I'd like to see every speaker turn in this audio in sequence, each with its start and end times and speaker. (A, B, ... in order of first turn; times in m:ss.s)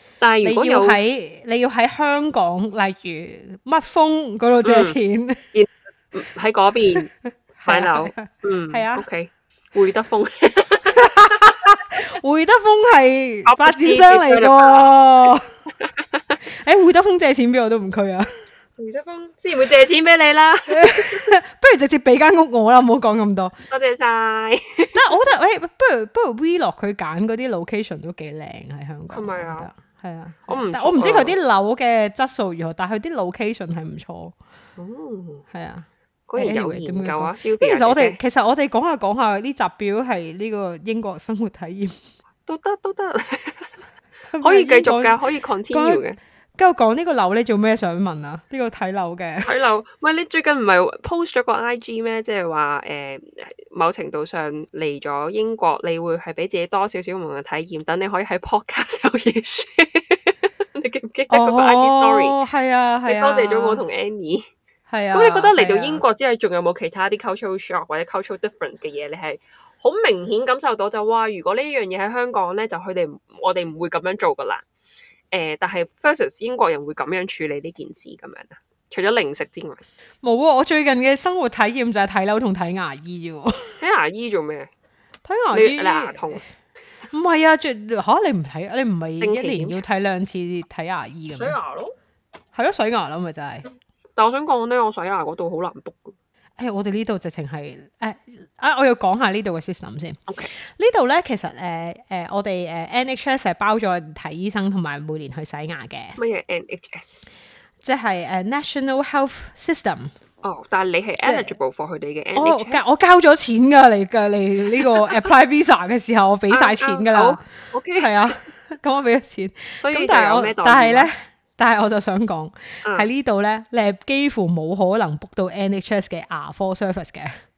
0:00.2-0:01.0 A
0:00.4-0:05.4 B
0:04.6-0:05.0 A
0:05.5-0:07.1 A
0:07.6-0:09.0 B
0:07.7-0:11.4 A
0:11.0-0:15.5 B
0:13.4-0:16.4 A
0:16.6-0:18.4 B
0:18.8-0:21.3 A
0:20.7-0:23.5 B
0:23.7-0:25.0 A
0:24.9-0:34.3 B
0:29.1-0:29.7 A
0:30.5-0:31.4 A
0:34.8-0:35.4 A
0:35.5-0:42.0 B
0:36.3-0:38.2 A
0:42.4-0:43.7 A
0:44.3-0:45.2 B
0:44.4-0:46.2 A
0:45.7-0:46.0 B
0:46.6-0:49.5 B
0:49.4-1:02.4 A
1:01.3-1:03.8 B
1:03.0-1:04.5 A
1:04.9-1:06.0 B
1:05.1-1:14.6 A
1:15.3-1:19.8 A
1:20.2-1:23.8 B
1:23.8-1:24.7 A
1:25.2-1:26.4 B
1:25.5-1:26.4 A
1:27.1-1:31.6 B
1:29.2-1:29.8 A
1:31.3-1:32.0 A
1:32.5-1:33.7 B
1:34.2-1:36.2 A
1:36.6-1:46.2 B
1:46.2-1:47.5 A
1:47.8-1:50.1 B
1:50.4-1:52.9 A
1:51.2-1:51.5 B
1:52.3-1:57.4 B
1:56.5-1:58.3 A
1:58.0-2:07.3 B
1:59.8-2:01.1 A